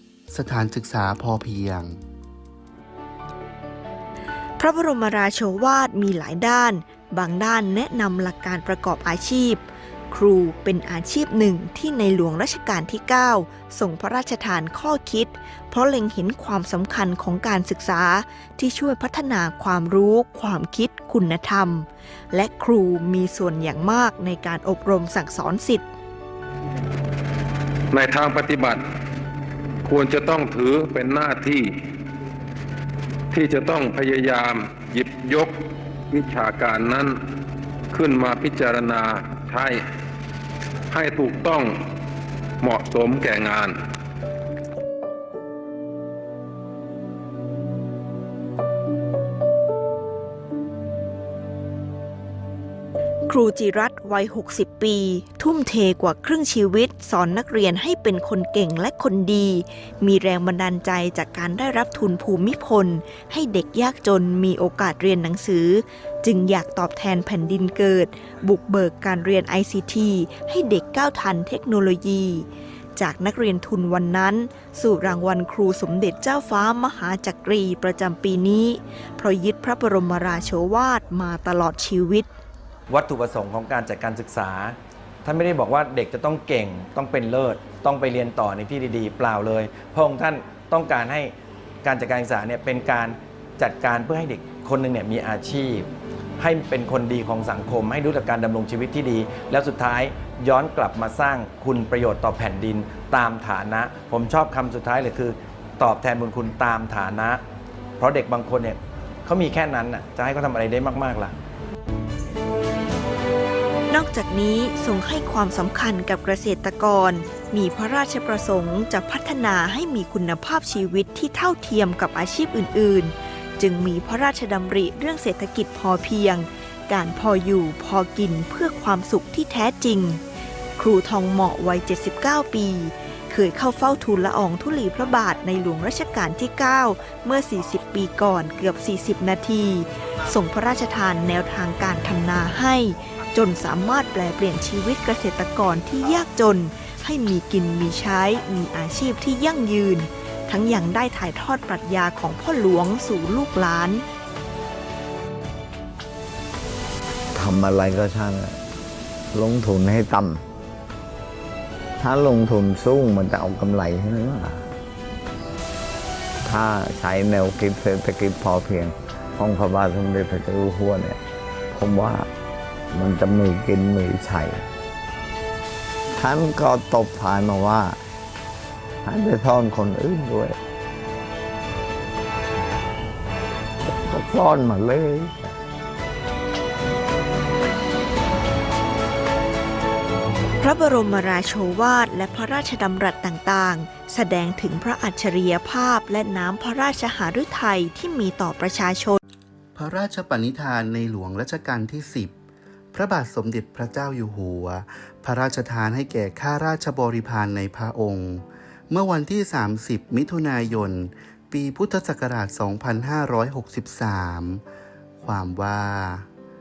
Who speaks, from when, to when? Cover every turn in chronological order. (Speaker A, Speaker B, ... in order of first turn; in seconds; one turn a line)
Speaker A: 0.3-2.0
Speaker B: 4.6-25.8
Speaker C: 27.9-28.8
Speaker C: 29.9-31.6
Speaker C: 33.3-35.5
Speaker C: 36.1-37.1
Speaker C: 37.9-39.8
Speaker C: 40.9-41.8
Speaker C: 42.6-43.8
Speaker B: 53.3-82.3
Speaker D: 82.9-91.3
Speaker D: 91.8-107.4
Speaker D: 108.0-111.3
Speaker B: 113.9-130.2
Speaker B: 130.8-154.0
Speaker E: 157.3-158.6
Speaker E: 159.3-160.4
Speaker E: 162.0-164.7
Speaker E: 166.4-171.2
Speaker E: 171.7-172.3
Speaker E: 172.9-174.7
Speaker E: 176.2-178.0
Speaker E: 179.0-180.6
Speaker E: 183.8-185.4
Speaker B: 190.6-199.2
Speaker A: 199.7-202.3
Speaker A: 202.9-214.6
Speaker A: 215.2-216.2